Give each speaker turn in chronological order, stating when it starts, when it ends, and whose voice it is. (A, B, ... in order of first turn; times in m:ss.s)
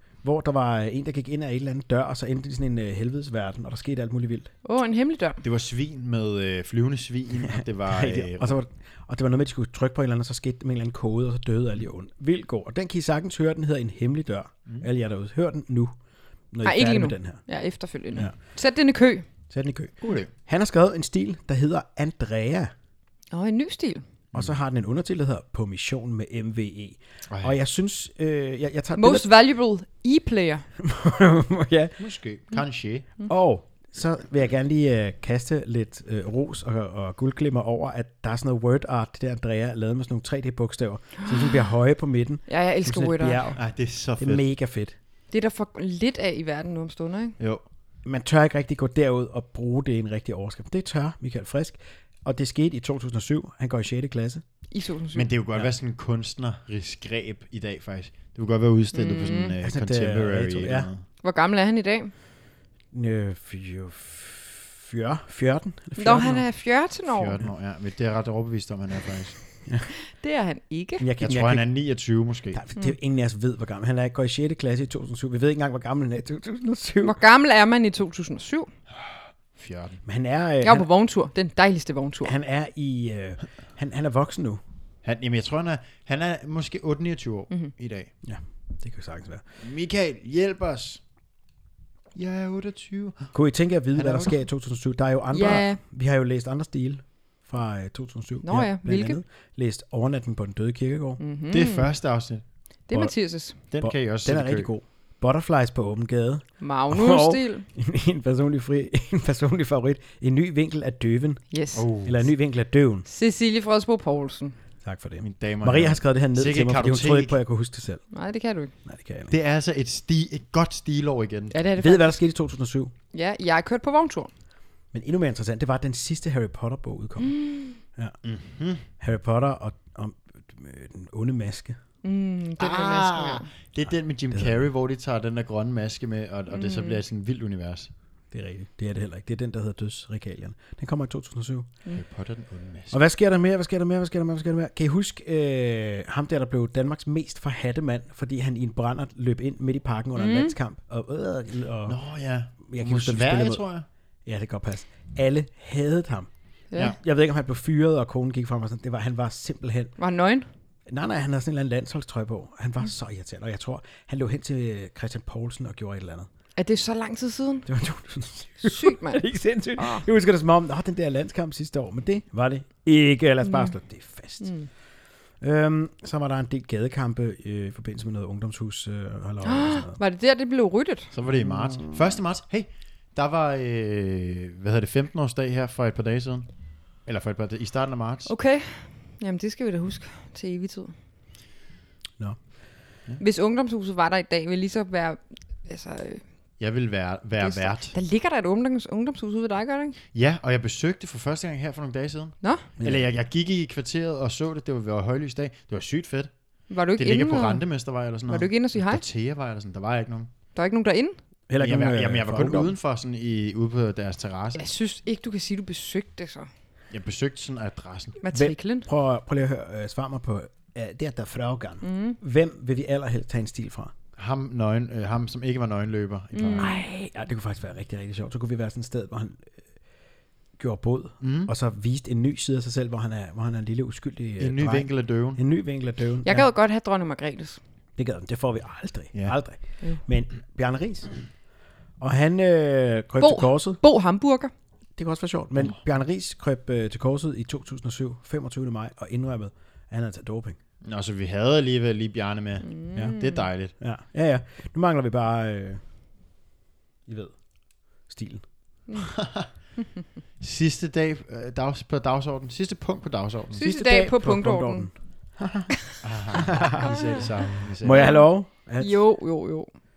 0:00.2-0:04.5 A
0:04.6-0:05.4 B
0:05.4-0:08.6 C
0:07.8-0:15.9 A
0:16.5-0:17.4 A
0:16.6-0:19.2 B
0:19.5-0:22.7 A
0:20.0-0:20.3 C
0:23.3-0:24.0 B
0:24.3-0:29.3 A
0:27.3-0:27.6 C
0:29.0-0:30.6 B
0:30.8-0:32.0 A
0:32.0-0:33.1 C
0:33.3-0:43.6 A
0:42.5-0:43.5 B
0:43.5-0:44.4 C
0:44.2-0:45.0 A
0:45.3-0:47.4 B
0:48.0-0:54.4 A
0:54.7-0:55.3 B
0:55.1-1:01.0 C
0:58.9-0:59.5 B
0:59.6-1:00.9 A
1:01.2-1:02.1 B
1:02.9-1:06.4 A
1:06.0-1:07.4 B
1:07.1-1:09.4 C
1:10.0-1:11.1 B
1:11.0-1:11.6 A
1:11.2-1:12.6 C
1:12.5-1:17.2 A
1:17.0-1:18.7 B
1:19.0-1:20.0 C
1:20.0-1:20.9 A
1:20.6-1:22.3 B
1:22.2-1:24.6 A
1:25.0-1:28.1 C
1:28.2-1:29.4 A
1:29.6-1:31.0 C
1:32.1-1:33.3 C
1:33.3-1:41.2 A
1:33.9-1:34.4 C
1:35.3-1:35.8 B
1:38.4-1:39.2 B
1:41.2-1:41.9 B
1:41.5-1:42.4 C
1:42.9-1:43.6 B
1:43.7-1:44.7 C
1:43.8-1:51.4 A
1:46.6-1:47.6 B
1:51.5-1:51.8 B
1:51.7-1:52.2 C
1:52.0-1:53.0 A
1:53.0-1:54.5 B
1:54.8-1:58.0 A
1:55.2-1:57.4 C
1:58.1-1:58.7 B
1:58.8-1:59.3 A
1:59.3-2:01.5 C
2:01.5-2:02.2 B
2:01.8-2:02.9 A
2:03.1-2:04.3 B
2:04.9-2:08.2 A
2:07.2-2:07.8 B
2:08.2-2:08.8 C
2:09.0-2:11.8 A
2:12.0-2:13.5 B
2:12.6-2:17.9 C
2:14.3-2:14.6 A
2:16.5-2:17.0 B
2:18.3-2:21.7 A
2:21.9-2:23.0 C
2:22.9-2:32.0 A
2:30.2-2:30.5 B
2:31.8-2:33.8 C
2:32.7-2:33.6 A
2:34.2-2:39.9 A
2:36.7-2:37.0 B
2:40.0-2:40.5 B
2:40.9-2:46.3 A
2:46.6-2:47.7 B
2:47.6-2:54.5 A
2:48.6-2:49.2 B
2:49.8-2:50.0 B
2:53.4-2:53.7 B
2:54.4-2:54.7 B
2:55.4-3:00.0 A
2:59.4-3:01.1 B
3:01.1-3:08.3 C
3:01.4-3:02.2 A
3:08.2-3:10.9 B
3:13.2-3:16.2 B
3:16.6-3:18.0 C
3:17.4-3:20.0 B
3:20.1-3:30.3 C
3:22.8-3:23.1 A
3:26.7-3:27.6 B
3:28.3-3:29.0 B
3:30.5-3:31.2 B
3:31.5-3:32.7 A
3:31.6-3:34.7 C
3:34.6-3:36.5 B
3:36.9-3:38.2 C
3:38.2-3:38.8 B
3:38.3-3:43.9 A
3:41.8-3:42.2 B
3:44.2-3:46.7 C
3:46.3-3:46.8 B
3:46.6-3:49.5 A
3:50.6-3:56.5 A
3:51.2-3:51.5 C
3:54.4-3:55.4 C
3:56.2-3:57.6 B
3:58.0-4:01.1 A
4:02.0-4:03.8 A
4:03.2-4:04.5 B
4:05.0-4:10.6 A
4:10.8-4:13.7 C
4:12.7-4:13.4 B
4:13.8-4:15.8 A
4:17.1-4:17.4 A
4:18.0-4:18.4 A
4:19.1-4:19.5 C
4:20.4-4:23.6 C
4:23.6-4:24.9 B
4:23.6-4:27.0 A
4:26.0-4:28.1 C
4:26.8-4:27.3 B
4:27.8-4:29.0 A
4:27.9-4:28.3 B
4:28.8-4:29.7 B